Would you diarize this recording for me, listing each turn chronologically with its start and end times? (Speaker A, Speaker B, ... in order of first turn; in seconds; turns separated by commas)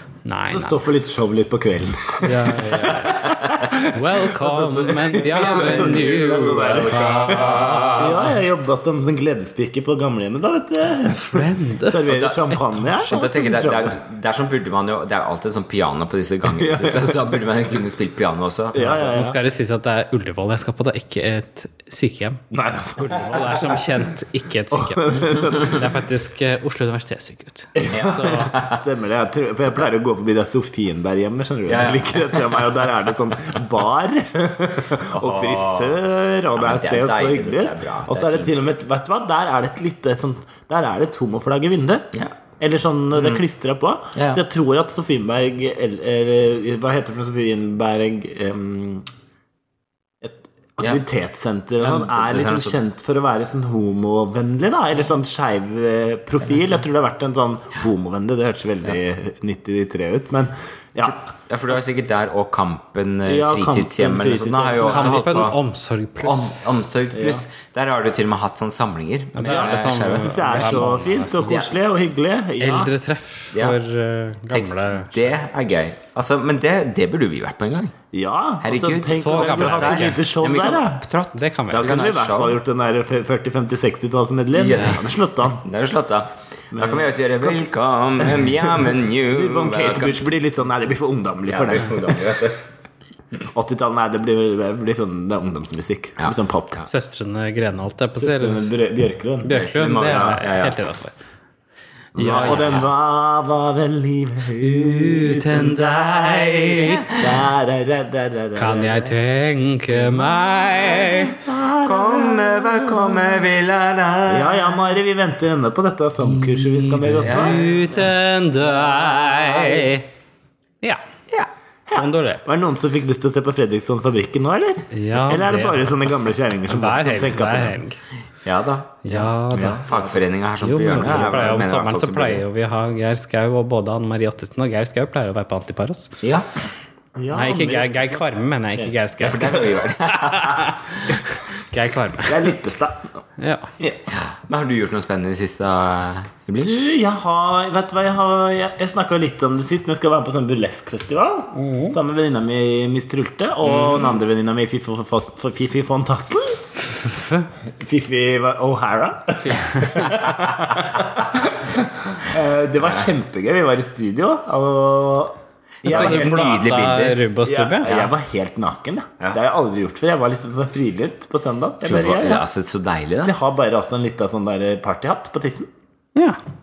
Speaker A: 0.2-0.8, Speaker B: 0.5-14.0, Speaker A: 2.2-8.3, Speaker C: 3.0-3.5, Speaker C: 5.3-8.2, Speaker A: 11.1-12.1, Speaker C: 12.1-12.4, Speaker A: 12.6-13.1, Speaker C: 13.1-19.1, Speaker B: 16.5-17.4, Speaker B: 18.7-19.4, Speaker A: 18.8-22.4, Speaker B: 22.5-24.0, Speaker A: 23.0-28.5, Speaker B: 24.7-25.9, Speaker B: 27.8-49.1, Speaker C: 27.9-28.8, Speaker C: 31.7-32.6, Speaker C: 35.1-36.0, Speaker C: 36.5-38.6, Speaker C: 44.1-44.4, Speaker B: 50.2-61.2, Speaker C: 51.8-52.8, Speaker C: 61.1-65.6, Speaker B: 63.3-65.5, Speaker A: 64.8-66.8, Speaker C: 66.2-71.7, Speaker B: 67.1-67.4, Speaker A: 69.3-71.6, Speaker B: 69.4-72.9, Speaker A: 72.6-75.3, Speaker C: 73.5-73.8, Speaker C: 74.5-77.9, Speaker B: 78.1-81.0, Speaker C: 78.6-82.6, Speaker A: 79.1-80.2, Speaker A: 81.3-82.0, Speaker B: 81.7-85.7, Speaker C: 84.5-90.2, Speaker B: 86.7-87.6, Speaker B: 89.2-92.4, Speaker C: 91.5-92.6, Speaker B: 93.5-96.9, Speaker C: 96.2-96.9, Speaker A: 96.9-98.7, Speaker B: 98.2-100.4, Speaker A: 99.4-101.1, Speaker C: 99.5-100.8, Speaker A: 102.2-102.8, Speaker C: 102.2-102.9, Speaker B: 102.2-105.9, Speaker A: 105.0-107.0, Speaker C: 105.3-107.4, Speaker B: 107.1-109.1, Speaker A: 108.6-111.4, Speaker C: 110.6-114.9, Speaker B: 111.3-113.3, Speaker B: 114.3-117.7, Speaker A: 116.4-120.1, Speaker C: 117.2-117.9, Speaker B: 121.9-127.8, Speaker A: 121.9-122.4, Speaker A: 124.9-125.9, Speaker A: 126.7-128.0, Speaker C: 128.4-132.4, Speaker A: 129.0-129.8, Speaker B: 129.7-130.1, Speaker A: 130.6-136.2, Speaker C: 136.2-136.5, Speaker B: 137.2-138.2, Speaker A: 137.3-142.5, Speaker B: 138.9-139.8, Speaker C: 139.2-140.7, Speaker B: 142.2-143.2, Speaker A: 143.4-143.7, Speaker C: 144.1-146.8, Speaker B: 146.6-156.7, Speaker A: 151.6-151.9, Speaker C: 153.7-154.2, Speaker A: 157.0-157.5, Speaker B: 157.8-166.5, Speaker A: 159.5-160.2, Speaker C: 165.8-167.2, Speaker A: 165.8-167.9, Speaker B: 167.4-172.4, Speaker C: 167.8-168.1, Speaker C: 171.8-173.3, Speaker B: 173.2-175.7